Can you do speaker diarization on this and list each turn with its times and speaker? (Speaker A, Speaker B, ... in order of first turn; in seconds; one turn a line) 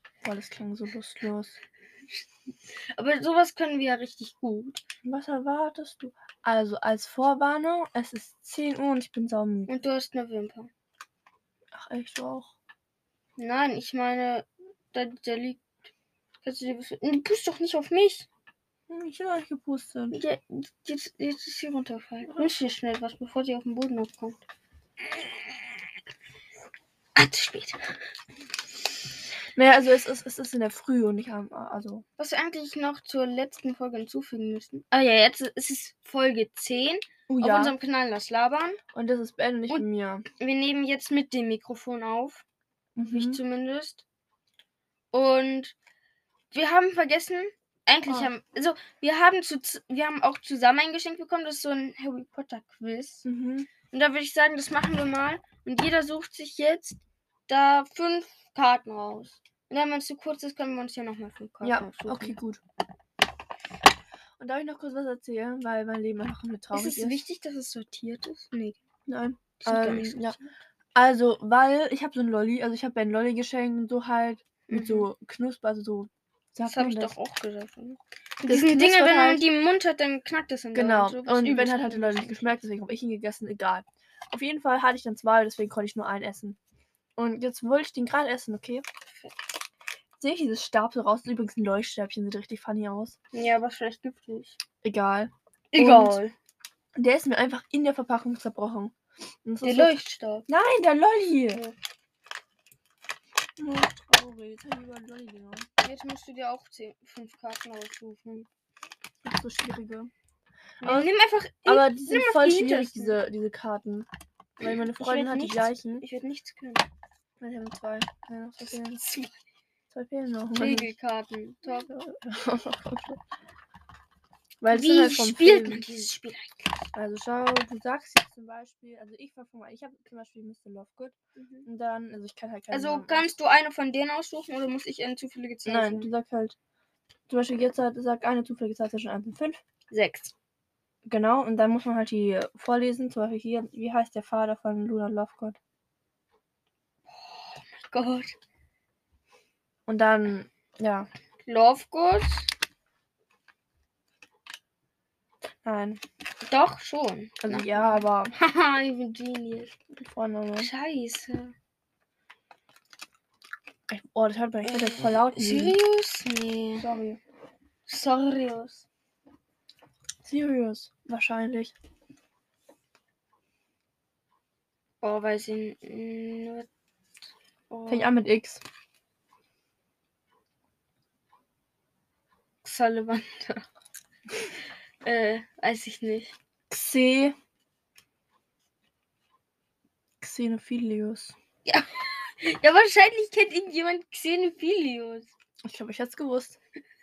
Speaker A: 0.2-1.6
Speaker B: 2.9-4.8
Speaker A: 5.0-9.7
Speaker B: 9.7-10.7
Speaker A: 11.7-12.5
Speaker B: 13.4-15.6
Speaker B: 16.4-18.3
Speaker A: 18.9-20.2
Speaker B: 20.1-24.4
Speaker A: 22.3-22.5
Speaker B: 27.2-27.8
Speaker A: 29.6-32.0
Speaker B: 32.2-38.8
Speaker A: 37.3-37.7
Speaker A: 38.9-40.2
Speaker B: 40.4-42.4
Speaker A: 43.0-43.4
Speaker B: 43.0-44.0
Speaker B: 45.1-45.8
Speaker B: 46.5-53.2
Speaker A: 53.2-53.7
Speaker B: 53.9-62.4
Speaker A: 61.6-62.6
Speaker A: 64.4-67.2
Speaker B: 66.7-68.8
Speaker A: 69.1-70.4
Speaker B: 69.6-70.4
Speaker A: 71.0-77.1
Speaker B: 74.7-75.1
Speaker B: 76.7-82.6
Speaker A: 78.5-79.5
Speaker A: 80.7-86.6
Speaker A: 87.2-88.8
Speaker A: 90.2-93.2
Speaker B: 93.3-94.6
Speaker A: 94.8-96.2
Speaker B: 95.7-96.3
Speaker A: 97.0-98.9
Speaker A: 99.5-99.9
Speaker B: 99.6-100.5
Speaker A: 100.5-101.6
Speaker A: 103.6-105.7
Speaker B: 105.8-108.5
Speaker A: 109.2-110.1
Speaker B: 110.8-113.2
Speaker A: 110.8-111.1
Speaker A: 111.7-114.1
Speaker A: 114.6-116.0
Speaker B: 114.6-116.9
Speaker A: 117.4-119.0
Speaker B: 118.9-119.4
Speaker A: 119.9-120.9
Speaker B: 120.5-121.9
Speaker A: 121.7-123.2
Speaker A: 124.6-126.1
Speaker B: 124.7-126.7
Speaker A: 126.9-131.2
Speaker B: 131.4-131.7
Speaker A: 131.7-133.3
Speaker B: 132.7-136.1
Speaker A: 135.7-136.6
Speaker A: 137.3-139.6
Speaker B: 139.9-140.3
Speaker A: 141.1-145.6
Speaker B: 147.1-148.3
Speaker A: 149.9-151.1
Speaker B: 151.4-152.5
Speaker A: 155.6-156.0
Speaker B: 156.4-159.8
Speaker A: 157.4-158.3
Speaker A: 159.9-160.7
Speaker B: 160.6-161.5
Speaker A: 163.9-165.8
Speaker B: 164.6-166.9
Speaker A: 166.8-167.2
Speaker B: 167.9-168.8
Speaker A: 170.2-171.7
Speaker B: 175.0-176.7
Speaker B: 177.7-178.1
Speaker A: 177.9-178.6
Speaker B: 182.6-183.6
Speaker B: 185.0-186.3
Speaker A: 186.7-187.3
Speaker A: 190.2-191.3
Speaker B: 191.7-195.3
Speaker A: 195.7-196.6